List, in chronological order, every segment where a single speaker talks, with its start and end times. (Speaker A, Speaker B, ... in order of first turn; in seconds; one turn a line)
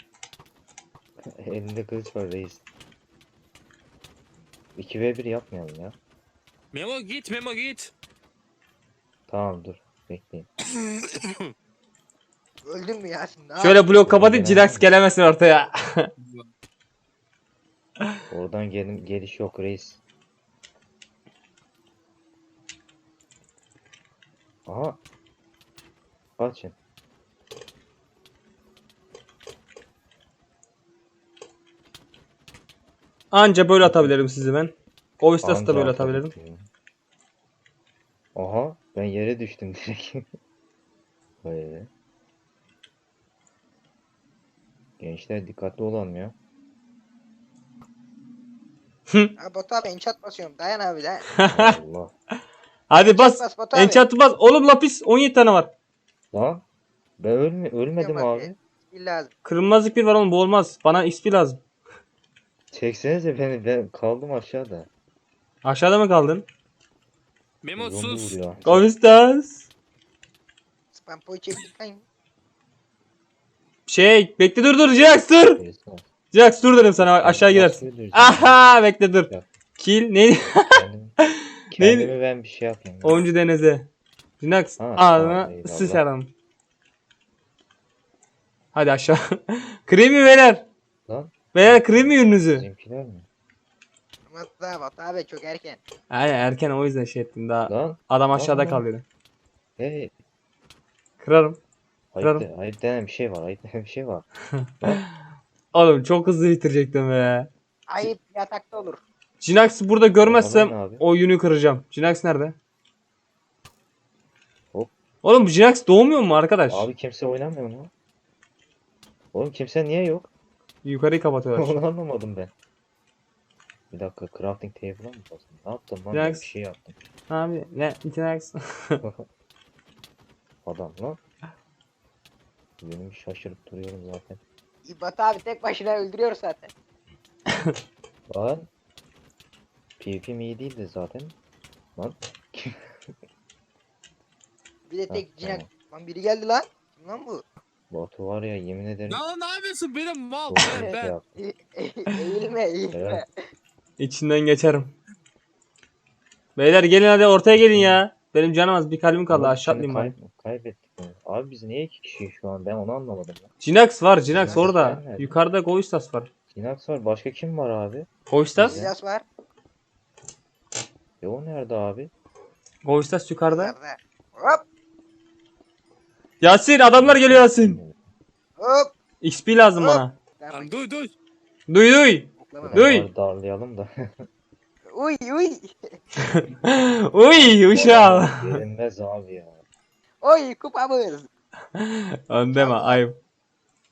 Speaker A: 1.2-2.6
Speaker A: 4.7-6.0
Speaker B: 6.7-7.9
Speaker A: 9.3-10.5
Speaker B: 10.8-11.5
Speaker C: 12.6-13.8
Speaker D: 13.6-16.1
Speaker A: 14.0-14.9
Speaker B: 16.2-16.5
Speaker A: 18.3-20.0
Speaker A: 24.6-25.0
Speaker A: 26.4-26.8
Speaker D: 33.3-36.3
Speaker A: 33.8-34.3
Speaker A: 35.4-36.7
Speaker A: 38.3-40.2
Speaker A: 41.4-41.9
Speaker A: 45.0-46.3
Speaker D: 49.1-49.3
Speaker C: 49.4-51.3
Speaker D: 51.4-51.7
Speaker A: 51.5-52.1
Speaker D: 52.9-55.7
Speaker C: 52.9-54.0
Speaker A: 56.3-56.6
Speaker A: 57.2-58.6
Speaker C: 58.0-59.3
Speaker D: 59.4-61.6
Speaker A: 62.7-64.9
Speaker D: 65.6-66.4
Speaker B: 67.6-68.4
Speaker A: 67.8-68.9
Speaker D: 68.6-69.6
Speaker C: 70.9-72.0
Speaker D: 73.9-75.6
Speaker A: 75.5-76.0
Speaker D: 76.3-80.7
Speaker A: 77.0-78.7
Speaker A: 80.7-81.1
Speaker A: 81.7-83.2
Speaker D: 81.8-82.1
Speaker D: 83.0-83.9
Speaker D: 84.4-86.3
Speaker A: 84.8-86.0
Speaker D: 88.7-90.7
Speaker A: 91.1-93.2
Speaker D: 91.5-92.7
Speaker C: 94.3-95.8
Speaker D: 96.1-99.0
Speaker A: 97.7-98.9
Speaker A: 99.8-100.1
Speaker D: 101.2-101.6
Speaker A: 102.1-104.3
Speaker D: 105.7-107.5
Speaker C: 107.9-109.0
Speaker D: 109.4-112.5
Speaker A: 110.2-111.0
Speaker D: 115.2-116.9
Speaker A: 116.7-117.9
Speaker A: 119.3-120.3
Speaker D: 120.8-121.8
Speaker A: 121.5-122.5
Speaker A: 123.9-127.0
Speaker D: 126.1-126.5
Speaker D: 127.3-129.0
Speaker A: 130.6-131.2
Speaker A: 132.8-134.4
Speaker C: 134.8-136.7
Speaker A: 138.3-138.7
Speaker A: 140.0-141.3
Speaker A: 141.9-142.9
Speaker C: 144.9-147.4
Speaker A: 145.1-145.7
Speaker A: 147.9-149.2
Speaker B: 149.1-151.1
Speaker A: 150.5-151.3
Speaker C: 150.7-153.2
Speaker A: 152.9-153.2
Speaker D: 154.0-154.9
Speaker D: 156.6-160.1
Speaker A: 157.5-158.0
Speaker A: 159.3-163.5
Speaker D: 163.6-166.3
Speaker A: 164.2-165.4
Speaker C: 164.4-164.7
Speaker A: 166.5-168.9
Speaker D: 168.3-168.8
Speaker C: 168.6-169.2
Speaker A: 171.2-172.1
Speaker D: 172.8-173.7
Speaker C: 173.5-174.6
Speaker D: 176.4-177.8
Speaker A: 176.9-177.9
Speaker C: 178.6-178.9
Speaker D: 179.2-180.1
Speaker C: 179.8-180.7
Speaker B: 180.5-181.1
Speaker D: 181.7-183.1
Speaker C: 182.4-182.9
Speaker A: 182.6-184.2
Speaker C: 184.9-186.0
Speaker D: 186.6-188.6
Speaker A: 187.3-189.6
Speaker C: 190.2-191.3
Speaker D: 191.8-193.2
Speaker C: 192.5-193.0